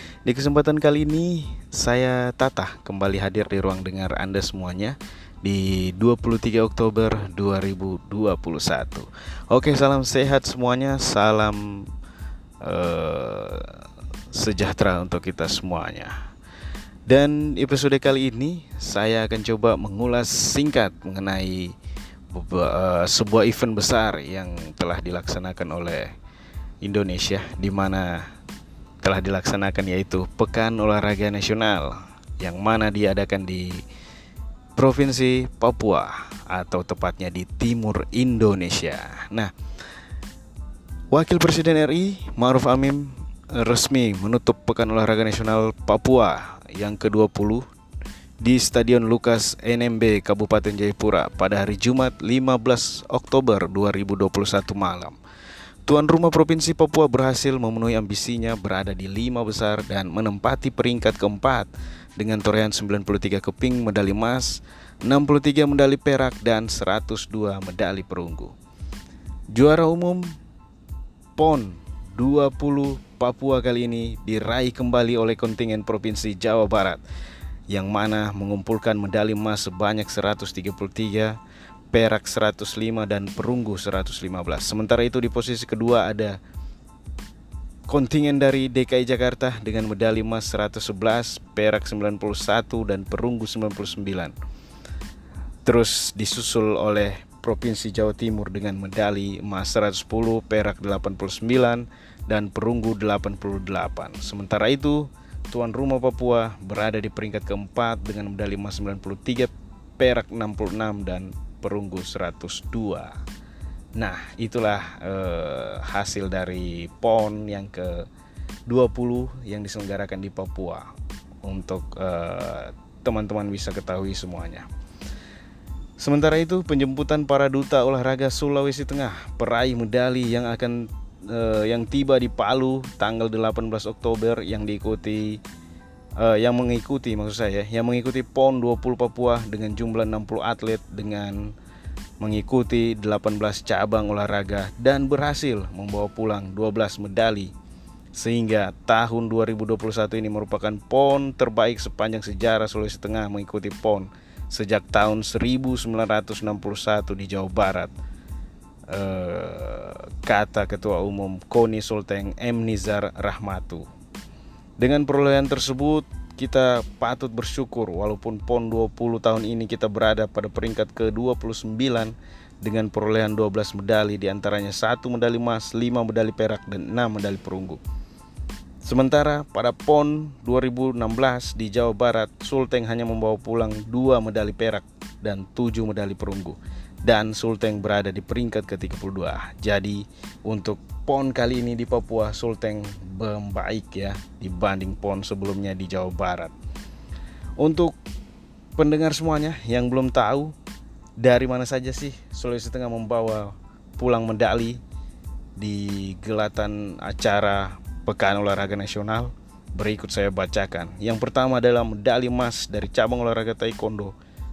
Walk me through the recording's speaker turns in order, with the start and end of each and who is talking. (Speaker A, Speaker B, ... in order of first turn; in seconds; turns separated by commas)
Speaker A: 0.2-11.9, Speaker A: 12.6-16.2, Speaker A: 17.1-21.7, Speaker A: 22.3-26.1, Speaker A: 26.8-28.3, Speaker A: 29.0-33.8, Speaker A: 34.8-39.5, Speaker A: 41.1-47.6, Speaker A: 48.4-55.2, Speaker A: 55.9-68.5, Speaker A: 69.5-70.3, Speaker A: 71.4-77.0, Speaker A: 77.7-81.4, Speaker A: 81.9-86.4, Speaker A: 87.9-94.3, Speaker A: 95.7-113.2, Speaker A: 114.0-118.1, Speaker A: 118.7-124.7, Speaker A: 126.0-135.4, Speaker A: 136.2-141.5, Speaker A: 142.2-147.5, Speaker A: 148.1-157.9, Speaker A: 158.9-163.9, Speaker A: 164.8-177.8, Speaker A: 178.8-196.5, Speaker A: 197.6-197.9, Speaker A: 198.8-200.5, Speaker A: 201.2-204.8, Speaker A: 205.6-214.1